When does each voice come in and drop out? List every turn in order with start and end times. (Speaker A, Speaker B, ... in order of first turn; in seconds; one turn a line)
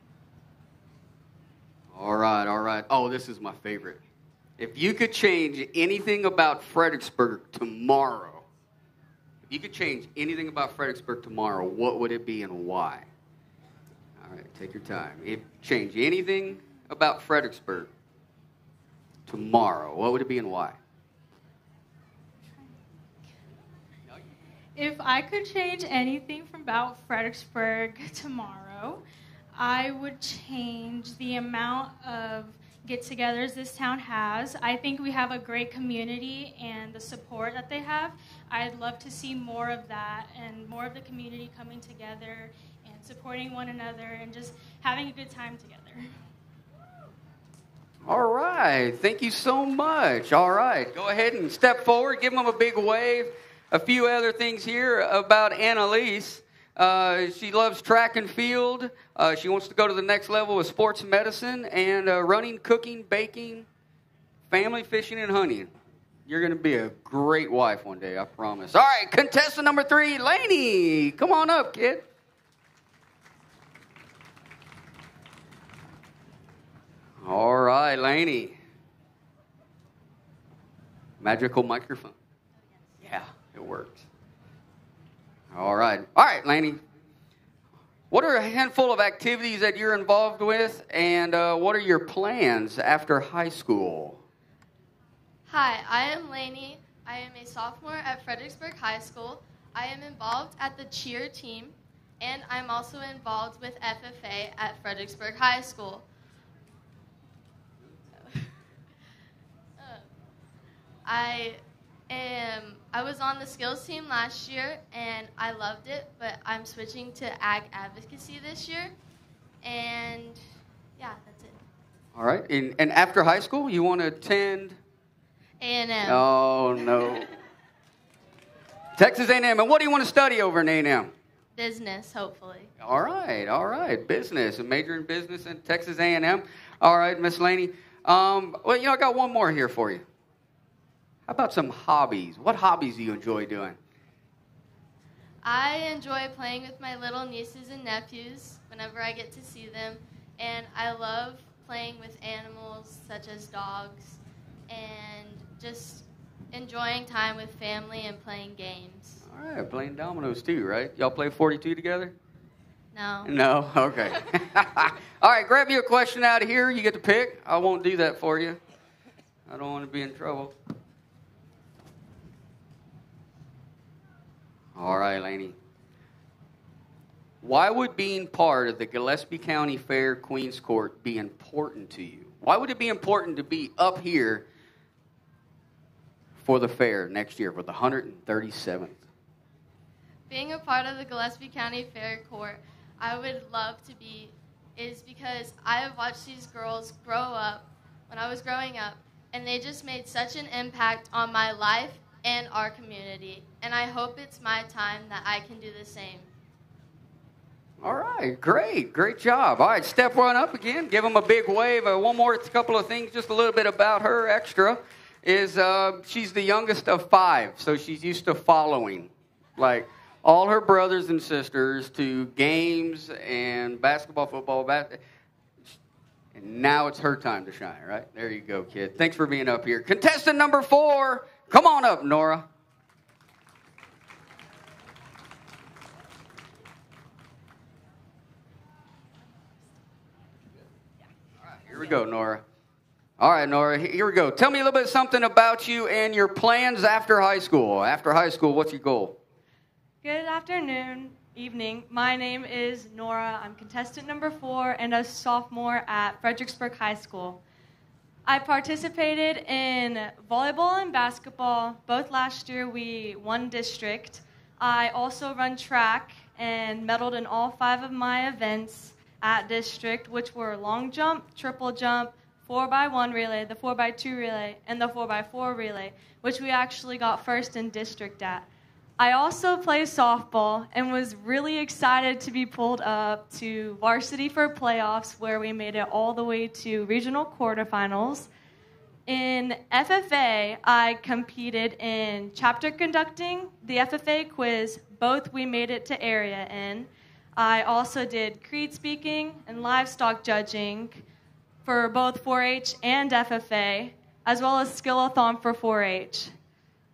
Speaker A: 1.9-4.0
Speaker A: 4.6-8.4
Speaker A: 9.5-13.1
Speaker A: 14.2-17.9
Speaker A: 19.3-20.8
Speaker B: 24.8-29.0
Speaker B: 29.6-46.0
Speaker A: 48.0-63.7
Speaker A: 64.5-65.7
Speaker A: 66.2-72.0
Speaker A: 77.2-78.5
Speaker A: 81.2-82.1
Speaker A: 83.0-84.0
Speaker A: 85.5-86.8
Speaker A: 88.1-94.2
Speaker C: 95.5-106.0
Speaker C: 109.8-110.0
Speaker C: 111.0-118.9
Speaker C: 119.6-120.4
Speaker C: 121.0-121.6
Speaker A: 122.1-124.8
Speaker C: 125.6-126.2
Speaker A: 126.0-127.3
Speaker C: 126.8-127.2
Speaker A: 129.0-131.1
Speaker C: 131.6-132.7
Speaker A: 132.8-140.0
Speaker A: 141.3-143.8
Speaker C: 145.4-159.2
Speaker A: 159.2-162.1
Speaker C: 162.9-163.3
Speaker A: 163.2-168.6
Speaker A: 169.5-170.5
Speaker A: 174.7-175.6
Speaker A: 177.4-184.4
Speaker A: 186.4-189.0
Speaker C: 190.3-206.3
Speaker A: 207.8-225.0
Speaker A: 226.3-232.5
Speaker A: 241.5-242.4
Speaker A: 243.2-249.2
Speaker D: 250.0-257.4
Speaker D: 258.2-278.4
Speaker D: 279.0-288.3
Speaker D: 289.1-301.0
Speaker D: 301.6-306.3